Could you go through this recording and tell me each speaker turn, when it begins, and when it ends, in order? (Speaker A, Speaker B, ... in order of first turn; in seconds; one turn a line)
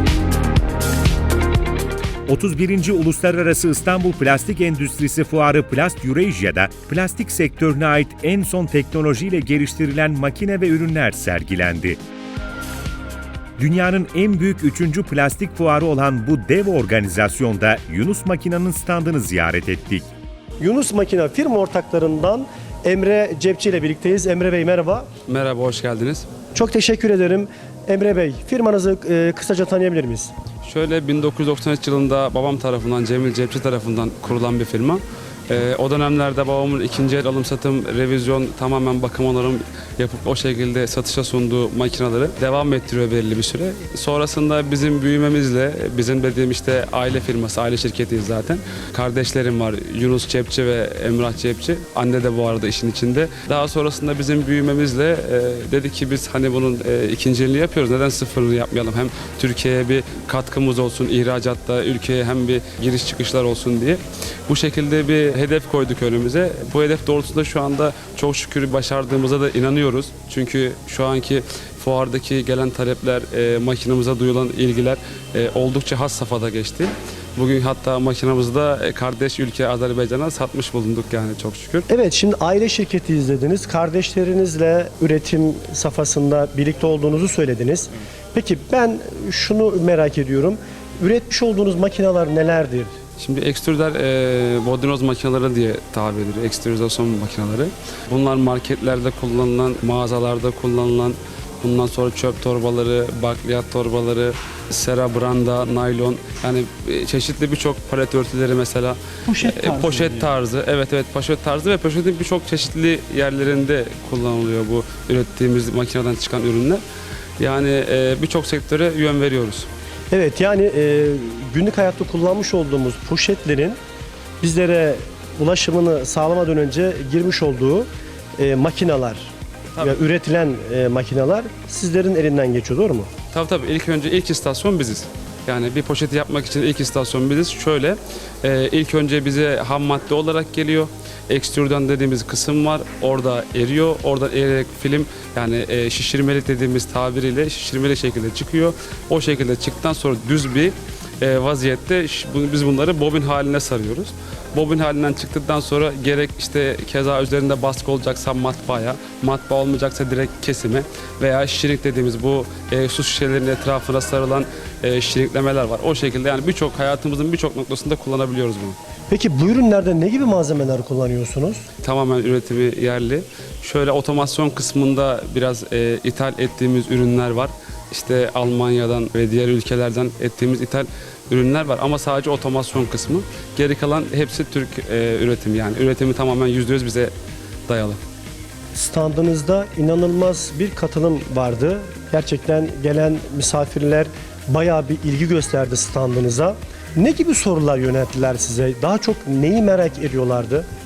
Speaker A: 2.3-12.0
Speaker A: 13.6-20.0
Speaker B: 20.6-25.1
Speaker C: 25.3-26.2
Speaker B: 26.5-30.3
Speaker C: 30.6-81.9
Speaker B: 81.9-92.9
Speaker C: 93.2-116.8
Speaker B: 109.3-110.3
Speaker C: 117.4-119.7
Speaker B: 120.1-123.8
Speaker B: 124.4-133.1
Speaker C: 133.3-168.8
Speaker B: 169.1-171.6
Speaker C: 171.8-187.1
Speaker C: 187.7-188.0
Speaker B: 188.7-200.7